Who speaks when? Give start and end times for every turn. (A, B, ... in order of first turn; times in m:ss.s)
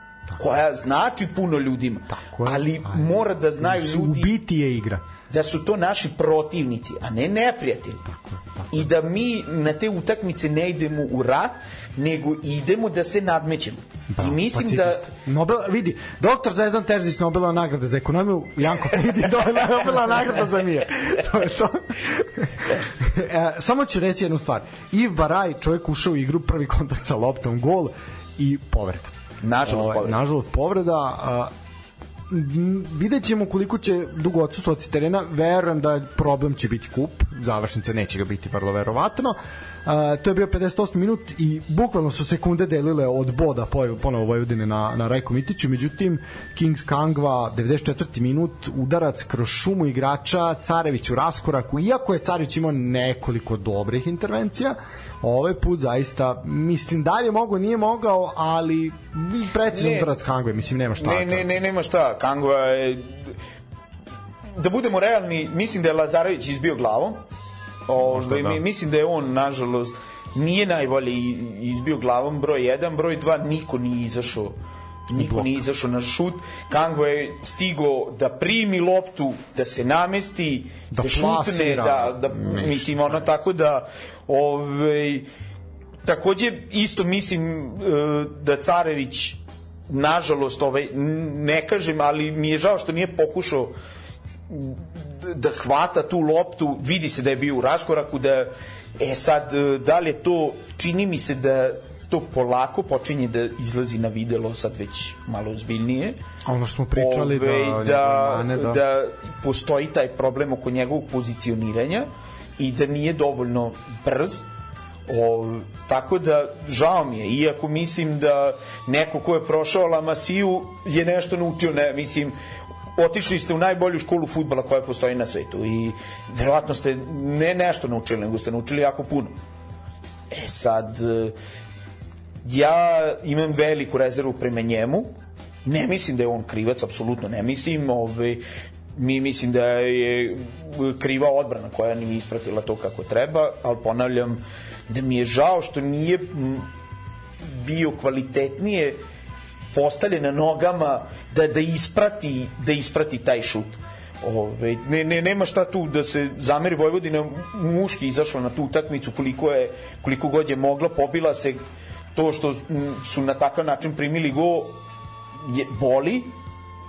0:00.4-0:04.4 A
0:02.1-0:05.0 B
0:05.3-0:08.0 A
0:08.1-0:08.9 B
0:08.7-0:15.1 A
0:14.2-0:31.5 B
0:29.4-0:30.2 A
0:32.3-1:01.6 B
0:59.7-1:00.1 A
1:01.0-1:03.3 A
1:04.6-1:07.2 A
1:07.9-1:14.6 A
1:08.0-1:08.6 B
1:15.1-1:15.6 B
1:15.1-1:25.3 A
1:20.9-1:23.3 B
1:26.0-1:33.7 A
1:34.5-1:46.2 A
1:46.5-1:48.8 B
1:47.0-1:54.5 A
1:55.1-2:02.4 A
2:03.0-2:09.4 A
2:10.3-2:11.4 A
2:12.4-2:15.1 A
2:15.6-2:18.4 A
2:19.0-2:26.7 A
2:27.4-2:29.0 A
2:29.7-2:41.6 A
2:42.2-2:44.8 A
2:45.4-2:46.3 A